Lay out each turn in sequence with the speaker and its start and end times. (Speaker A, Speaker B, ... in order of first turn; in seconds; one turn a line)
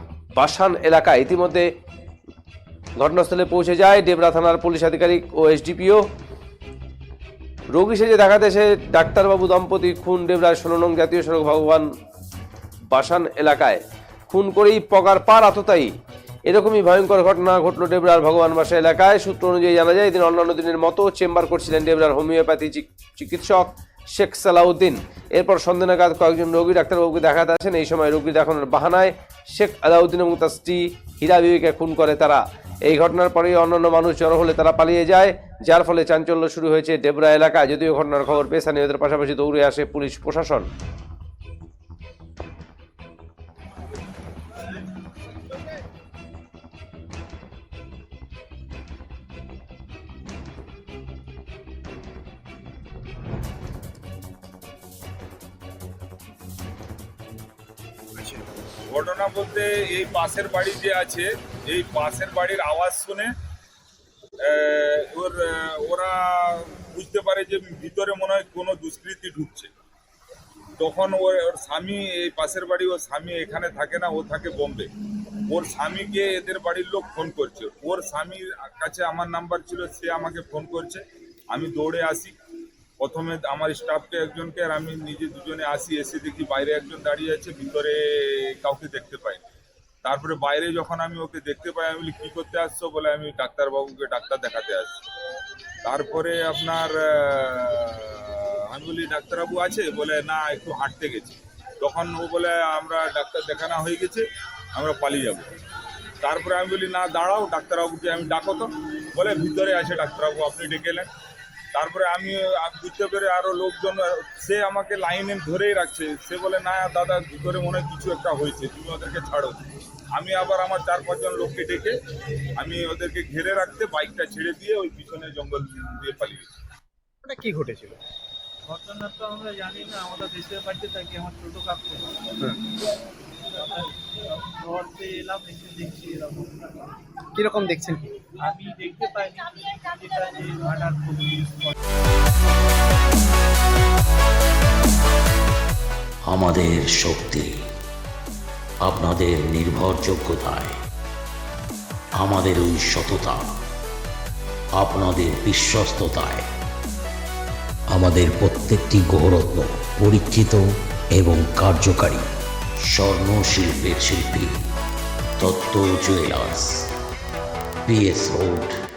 Speaker A: 0.3-1.7
Speaker A: 3.0-6.0
Speaker A: 7.7-11.9
Speaker A: 12.9-15.9
Speaker A: 16.4-40.7
Speaker B: 58.2-58.4
Speaker C: 58.9-63.3
Speaker C: 64.4-69.7
Speaker C: 70.8-74.9
Speaker C: 75.5-82.3
Speaker C: 83.0-89.4
Speaker C: 90.0-95.0
Speaker C: 95.8-104.2
Speaker C: 104.8-105.5
Speaker C: 106.2-111.1
Speaker C: 111.7-121.9
Speaker C: 122.6-126.5
Speaker B: 127.2-128.0
Speaker D: 128.7-132.3
Speaker D: 133.5-136.9
Speaker B: 137.3-138.2
Speaker D: 138.4-141.7
Speaker E: 146.3-147.6
Speaker E: 148.8-150.8
Speaker E: 152.2-153.5
Speaker E: 154.8-156.5
Speaker E: 157.9-162.3
Speaker E: 162.8-164.6
Speaker E: 165.4-166.9
Speaker E: 167.8-168.7